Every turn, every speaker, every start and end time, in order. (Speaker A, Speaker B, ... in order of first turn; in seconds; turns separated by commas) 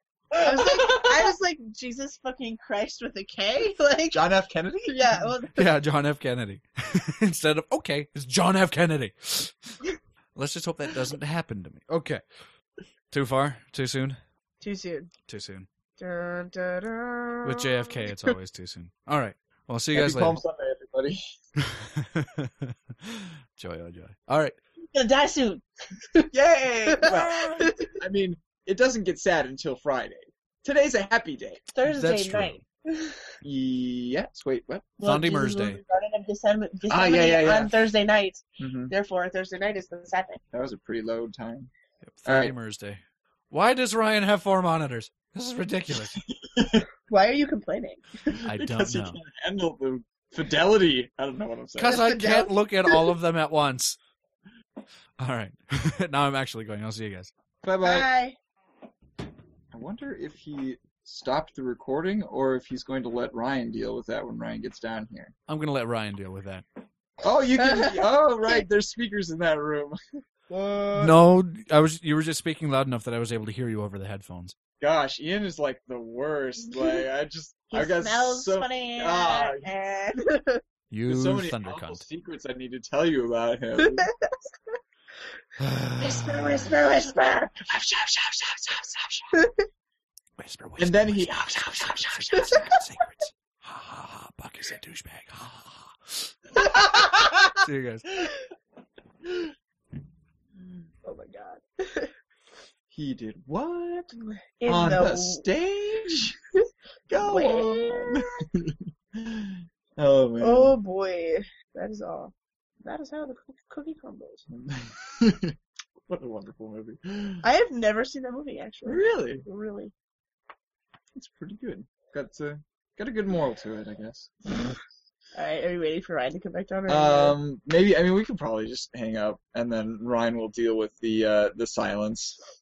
Speaker A: 0.3-1.2, Speaker B: 0.4-4.2, Speaker A: 4.1-5.0, Speaker B: 4.9-5.7, Speaker C: 5.5-9.7, Speaker C: 10.3-12.2, Speaker C: 13.1-14.2, Speaker B: 14.6-15.1, Speaker C: 15.3-15.7, Speaker B: 16.0-18.1, Speaker C: 17.4-20.4, Speaker A: 19.9-21.2, Speaker C: 21.6-24.6, Speaker B: 24.8-25.6, Speaker A: 26.3-31.6, Speaker B: 26.9-27.9, Speaker B: 31.7-33.3, Speaker C: 31.9-32.6, Speaker A: 33.4-34.9, Speaker B: 35.0-40.4, Speaker C: 35.0-35.8, Speaker A: 36.9-37.7, Speaker A: 38.6-38.9, Speaker A: 40.5-41.7, Speaker C: 42.0-46.2, Speaker A: 42.2-42.5, Speaker A: 45.9-46.9, Speaker B: 47.1-48.2, Speaker A: 48.4-52.0, Speaker C: 48.5-49.2, Speaker C: 51.8-54.0, Speaker B: 51.9-53.1, Speaker C: 55.2-57.3, Speaker A: 57.6-58.1, Speaker B: 57.8-58.4, Speaker A: 59.7-65.3, Speaker C: 65.5-66.6, Speaker A: 67.2-70.0, Speaker B: 67.6-68.6, Speaker B: 70.5-71.0, Speaker C: 70.9-74.6, Speaker A: 74.8-79.7, Speaker B: 76.6-77.0, Speaker B: 77.7-80.6, Speaker C: 80.9-82.0, Speaker A: 81.1-84.1, Speaker B: 83.8-84.7, Speaker C: 85.6-86.7, Speaker B: 86.0-87.5, Speaker A: 87.6-89.3, Speaker B: 89.3-89.6, Speaker C: 90.4-96.3, Speaker A: 90.8-92.7, Speaker B: 92.4-92.6, Speaker A: 96.8-97.4, Speaker C: 97.5-98.1, Speaker B: 101.0-102.1, Speaker A: 102.9-106.4, Speaker B: 104.1-105.4, Speaker A: 107.1-110.8, Speaker B: 107.1-108.4, Speaker B: 110.4-114.4, Speaker A: 114.5-115.5, Speaker A: 116.1-117.4, Speaker B: 117.4-119.9, Speaker A: 118.8-119.4, Speaker A: 121.1-124.7, Speaker B: 125.3-127.4, Speaker A: 126.9-132.4